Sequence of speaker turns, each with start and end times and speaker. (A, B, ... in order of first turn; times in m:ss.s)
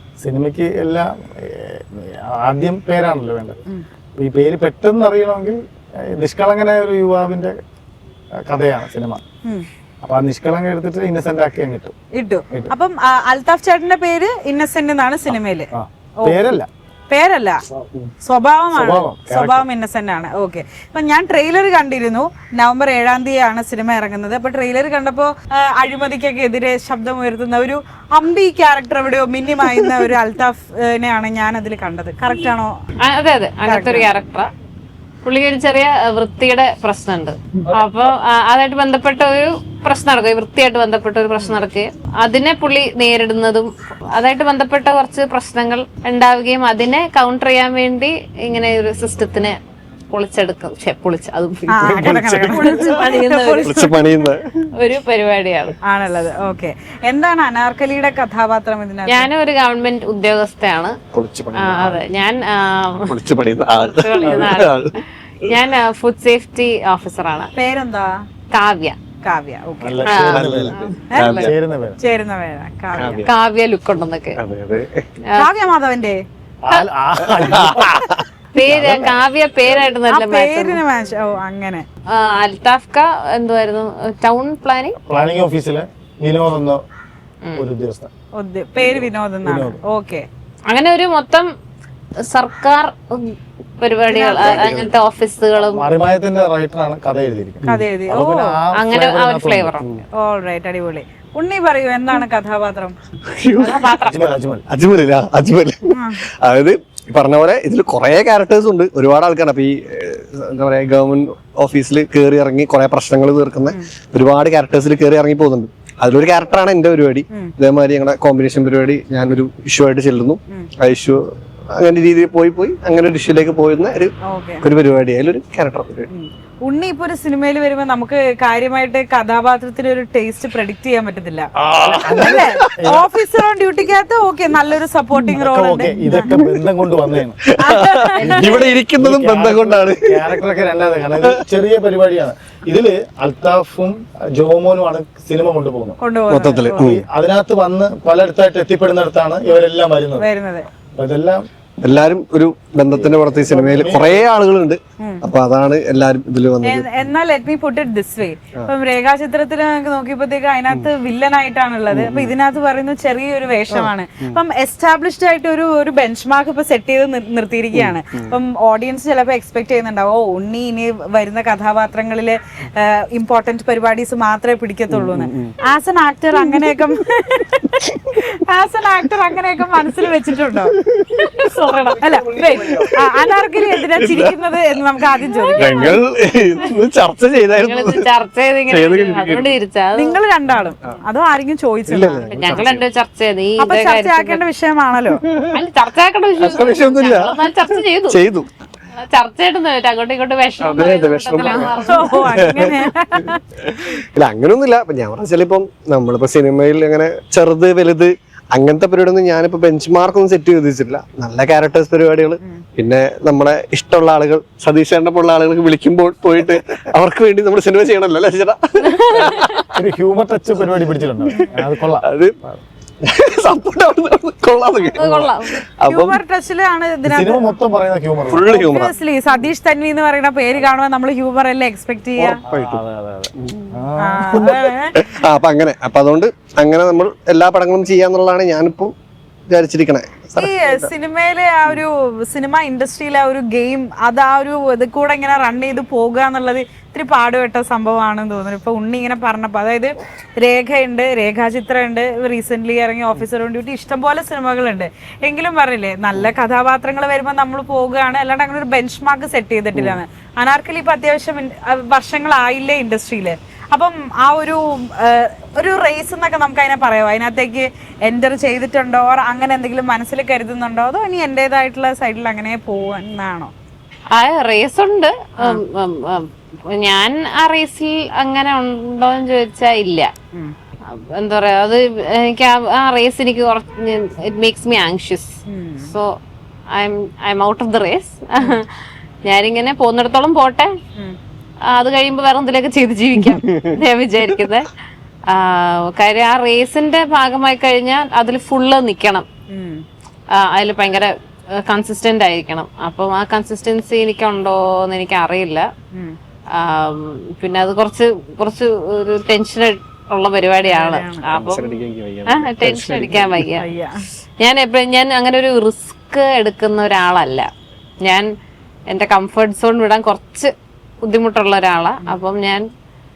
0:00.2-0:03.6 A
0:04.2-0:07.6 A
0:08.5-0:09.2 A
0:10.0-0:11.9 A
0:12.1-0:15.7 B
0:15.3-0:16.7 A
0:17.1-0:17.6 B
0:18.2-0:32.7 B
0:18.7-0:19.7 A
0:33.0-0:34.5 C
0:33.6-0:34.1 B
0:35.2-0:49.6 C
0:50.1-0:53.8 C
0:51.7-0:54.1 B
0:51.9-0:52.7 D
0:53.7-0:54.7 D
0:54.8-0:55.8 C
0:55.8-0:59.3 B
0:59.1-1:01.0 C
1:01.1-1:02.0 D
1:01.5-1:03.2 C
1:03.1-1:04.9 D
1:03.9-1:04.9 C
1:05.4-1:07.5 C
1:07.6-1:08.1 B
1:08.5-1:09.0 C
1:09.2-1:10.2 B
1:09.8-1:10.8 A
1:10.1-1:11.5 C
1:10.2-1:11.5 D
1:11.1-1:11.4 B
1:11.3-1:12.0 A
1:12.0-1:13.3 B
1:13.0-1:13.3 D
1:13.2-1:14.4 C
1:14.4-1:15.0 D
1:15.4-1:16.2 B
1:16.6-1:19.2 A
1:17.2-1:18.3 D
1:18.6-1:20.8 C
1:20.1-1:21.8 B
1:22.1-1:25.0 C
1:25.0-1:26.8 A
1:27.6-1:28.1 A
1:28.4-1:30.3 B
1:28.8-1:29.8 A
1:30.7-1:31.5 C
1:32.3-1:35.8 C
1:34.1-1:34.7 B
1:34.4-1:34.9 A
1:34.4-1:34.9 D
1:35.6-1:39.8 A
1:37.7-1:38.6 B
1:38.7-1:39.9 C
1:40.2-1:43.0 B
1:43.2-1:44.0 D
1:43.6-1:44.3 C
1:44.1-1:44.7 A
1:44.7-2:06.1 D
1:46.0-1:46.2 B
2:04.2-2:04.7 B
2:06.1-2:11.5 B
2:11.6-2:12.7 D
2:11.8-2:13.1 A
2:12.1-2:16.2 B
2:15.4-2:17.4 A
2:16.1-2:16.6 D
2:17.5-2:20.4 D
2:17.6-2:18.4 B
2:18.2-2:18.8 C
2:19.0-2:26.0 A
2:21.2-2:21.4 D
2:26.0-2:26.9 B
2:26.3-2:27.0 D
2:26.8-2:30.2 A
2:30.2-2:30.7 B
2:31.0-2:31.4 A
2:31.8-2:36.9 D
2:32.9-2:34.3 A
2:36.6-3:00.8 B
2:41.9-2:42.4 D
2:43.7-2:44.4 D
2:47.7-2:48.4 D
2:54.9-2:55.6 D
3:00.6-3:01.3 D
3:01.2-3:02.0 C
3:02.0-3:06.0 B
3:02.1-3:04.4 D
3:05.6-3:08.1 D
3:07.6-3:10.2 C
3:08.7-3:09.6 D
3:09.9-3:12.6 B
3:11.9-3:12.9 D
3:12.2-3:14.4 C
3:13.6-3:15.2 B
3:15.2-3:15.6 D
3:15.5-3:18.2 C
3:16.4-3:18.5 D
3:19.0-3:22.4 C
3:20.6-3:39.8 D
3:21.6-3:23.4 B
3:38.9-3:39.6 C
3:39.7-3:42.6 A
3:41.3-3:42.4 D
3:43.0-3:46.2 D
3:44.9-3:45.6 C
3:45.9-3:47.5 B
3:47.0-3:48.4 A
3:48.3-3:48.9 D
3:48.5-3:52.4 B
3:52.2-3:52.8 D
3:52.5-3:54.4 A
3:53.4-3:58.9 D
3:54.0-3:55.0 B
3:59.5-4:00.9 D
4:00.4-4:33.5 B
4:34.1-4:40.1 C
4:40.9-4:46.1 C
4:45.5-4:45.9 B
4:46.7-4:48.7 C
4:49.2-4:50.7 C
4:51.7-4:54.7 C
4:55.3-4:59.3 C
4:59.5-4:59.8 B
5:00.4-5:01.1 C
5:01.6-5:05.7 C
5:05.9-5:06.2 B
5:06.6-5:13.6 C
5:10.6-5:11.3 B
5:11.3-5:13.5 D
5:13.6-5:14.0 B
5:14.4-5:17.5 C
5:18.0-5:18.3 C
5:18.9-5:22.6 C